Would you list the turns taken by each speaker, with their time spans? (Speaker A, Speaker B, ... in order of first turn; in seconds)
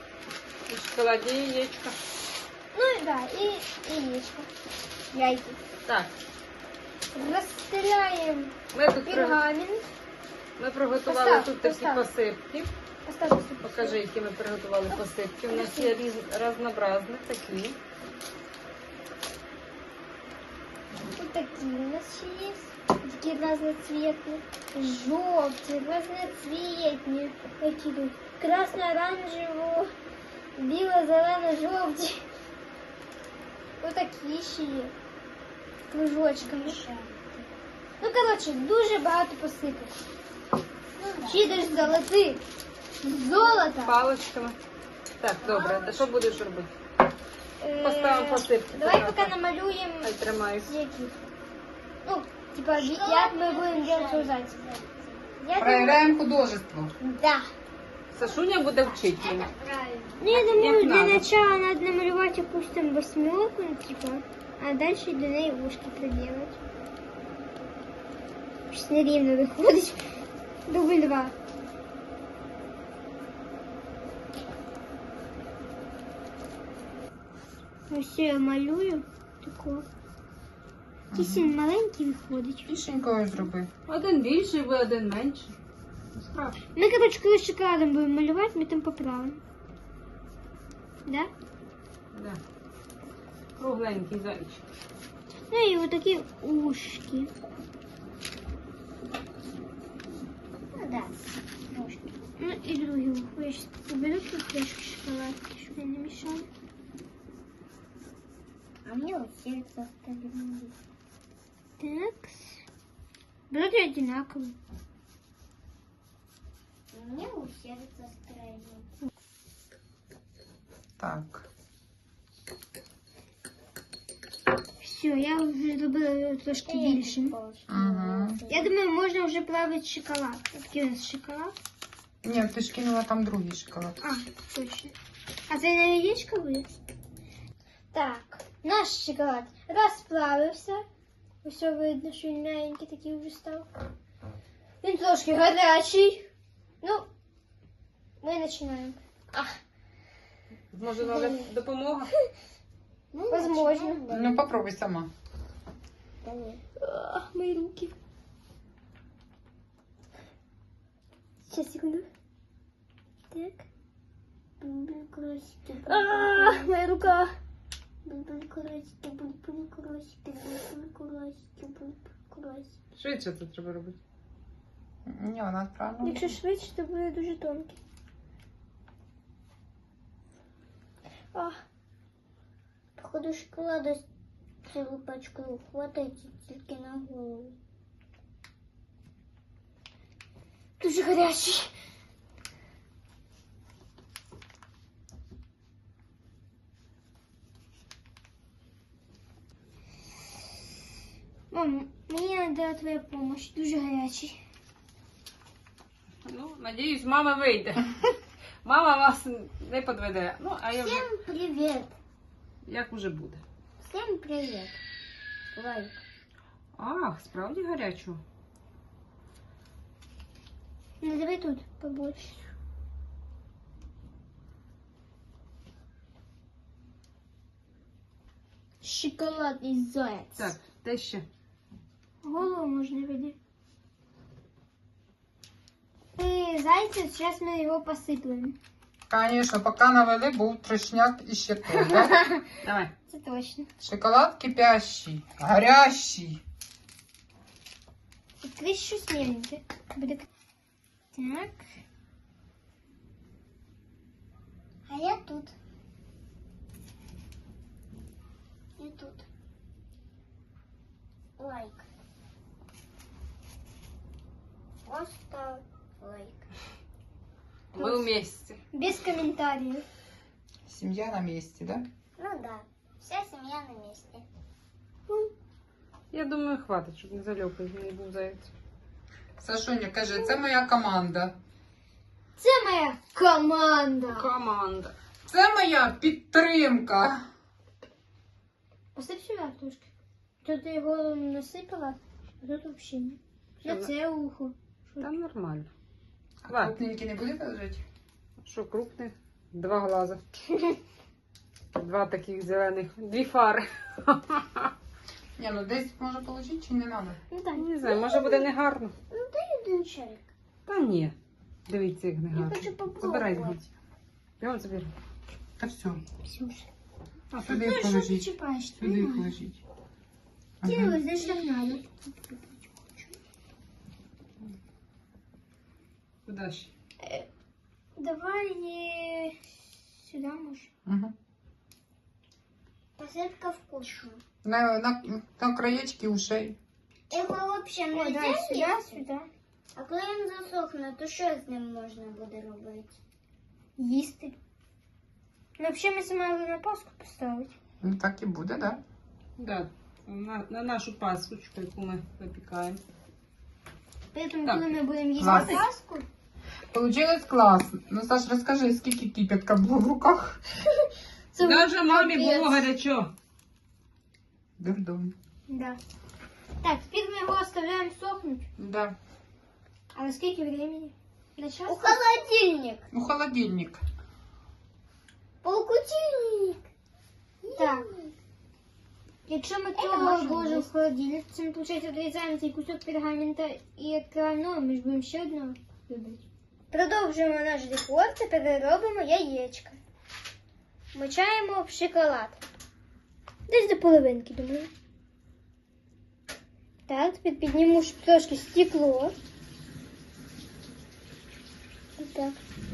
Speaker A: 0.7-2.0, 8.7-9.4, 10.6-12.7, 13.6-17.8, 43.8-44.6, 45.2-46.7, 47.8-49.3, 50.0-50.7, 58.1-59.5, 60.3-61.3, 83.9-85.6, 86.2-86.7, 92.1-92.4, 93.6-94.6, 150.7-152.1, 172.9-174.0, 206.3-211.1, 212.7-213.4, 216.8-218.2, 230.4-231.3, 242.6-242.9, 267.8-268.6, 276.1-278.5, 284.1-284.9, 293.6-293.9, 295.0-295.7, 296.4-296.8, 298.4-300.2, 301.8-304.7, 307.6-308.9, 310.7-311.1, 311.7-313.7, 314.4-314.9, 317.3-317.6, 326.3-326.7, 349.4-352.8, 355.3-355.6, 361.4-363.1
Speaker B: 2.7-4.5, 5.1-5.6, 7.1-8.5, 9.1-9.9, 11.1-12.0, 13.1-14.0, 14.9-15.9, 21.1-29.9, 30.6-32.3, 33.8-34.9, 35.9-36.8, 38.0-39.9, 41.3-42.4, 43.0-44.0, 47.6-50.1, 50.7-51.2, 52.0-54.5, 55.4-56.0, 57.1-57.4, 60.2-66.6, 68.7-70.0, 70.7-71.3, 77.9-79.9, 81.1-82.7, 86.8-89.4, 95.5-97.3, 102.4-106.5, 111.8-112.6, 113.5-114.6, 124.8-127.4, 128.5-131.5, 134.0-134.9, 135.5-136.7, 137.9-140.8, 141.4-143.7, 144.8-146.3, 146.8-147.1, 148.2-149.0, 153.3-154.0, 156.8-157.9, 161.5-162.1, 163.3-163.6, 165.9-167.3, 176.0-177.8, 181.3-181.6, 190.8-191.7, 201.5-204.4, 221.0-222.5, 232.2-233.4, 236.2-238.6, 241.8-242.5, 243.1-243.7, 248.4-250.3, 251.1-251.6, 267.8-268.1, 268.7-269.9, 282.4-284.3, 288.9-289.9, 290.4-295.1, 307.3-307.7, 316.3-316.7, 317.4-319.4, 320.6-322.9, 327.0-327.3, 328.0-330.7, 337.9-339.3, 343.8-344.3, 345.6-347.5, 354.1-356.1, 361.4-362.7, 365.5-365.8, 366.6-368.5, 369.9-372.0, 377.6-377.9, 379.3-385.6, 386.7-389.8, 390.9-392.4, 393.5-394.7, 396.9-399.1, 402.0-402.4
Speaker C: 36.4-37.5, 41.0-42.0, 43.2-43.6, 45.4-46.1, 52.8-55.3, 58.3-60.2, 100.7-102.2, 108.8-110.8, 116.9-118.9, 126.7-128.7, 151.0-151.5, 153.1-154.4, 156.2-156.6, 164.6-166.7, 168.1-172.7, 183.0-184.0, 184.7-187.6, 210.8-212.0, 213.8-214.8, 215.5-216.0, 228.8-230.6, 254.9-255.6, 258.8-259.3, 261.4-261.9, 264.9-266.5, 272.2-274.2, 307.8-308.5, 309.1-310.3, 312.4-313.6, 333.0-334.2, 337.1-339.0, 339.8-342.9, 371.7-372.9, 375.4-376.6, 377.4-378.1, 379.8-380.7
Speaker D: 55.6-56.9, 81.1-81.5, 82.7-83.7, 121.0-121.5, 127.7-128.4, 132.2-134.0, 154.1-155.1, 175.1-176.4, 239.1-242.2, 243.8-246.4, 270.7-271.9, 279.4-281.4, 285.3-287.3, 296.5-297.8, 305.4-307.2, 315.6-316.0, 317.4-319.6, 320.6-321.0, 330.9-331.1, 334.4-336.6, 347.8-348.8, 355.2-355.6, 356.7-360.5, 364.6-365.1, 368.6-369.0, 372.9-373.8